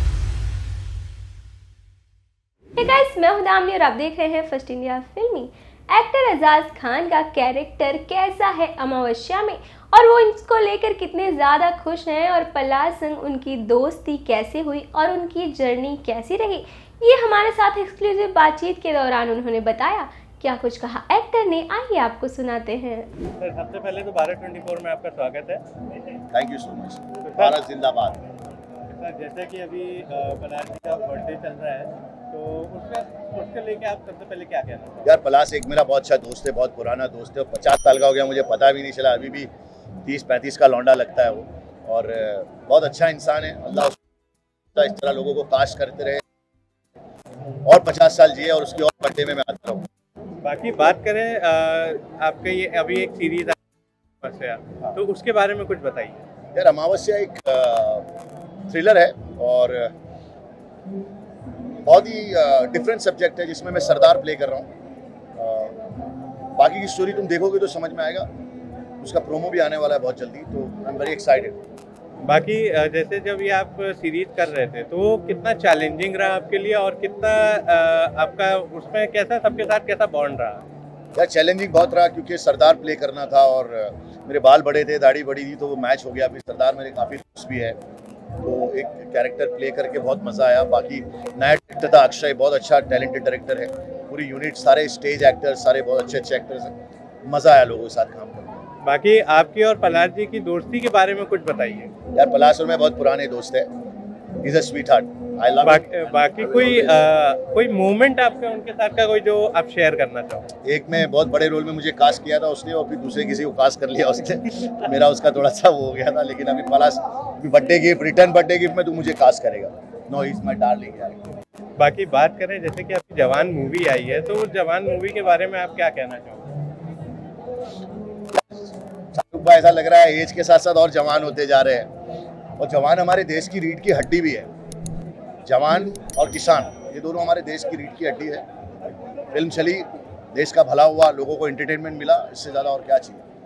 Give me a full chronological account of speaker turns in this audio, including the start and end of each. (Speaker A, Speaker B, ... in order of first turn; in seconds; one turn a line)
Speaker A: 2.8-23.1
Speaker B: 23.4-25.6
Speaker C: 26.3-28.2
Speaker B: 27.3-27.6
Speaker B: 28.9-35.1
Speaker C: 35.0-39.5
Speaker C: 40.0-44.0
Speaker C: 44.7-46.2
Speaker C: 47.6-49.9
Speaker B: 50.4-53.6
Speaker B: 54.2-56.2
Speaker C: 56.5-58.1
Speaker C: 58.7-59.9
Speaker C: 61.8-64.7
Speaker C: 65.4-65.8
Speaker C: 66.6-68.3
Speaker C: 69.0-71.6
Speaker B: 72.2-80.6
Speaker C: 81.1-87.8
Speaker C: 88.4-98.7
Speaker B: 98.8-101.9
Speaker C: 102.1-103.7
Speaker C: 104.4-107.0
Speaker B: 105.6-110.4
Speaker C: 110.6-121.2
Speaker B: 121.8-126.5
Speaker C: 129.1-131.9
Speaker C: 132.6-134.5
Speaker C: 135.4-138.4
Speaker C: 139.3-143.2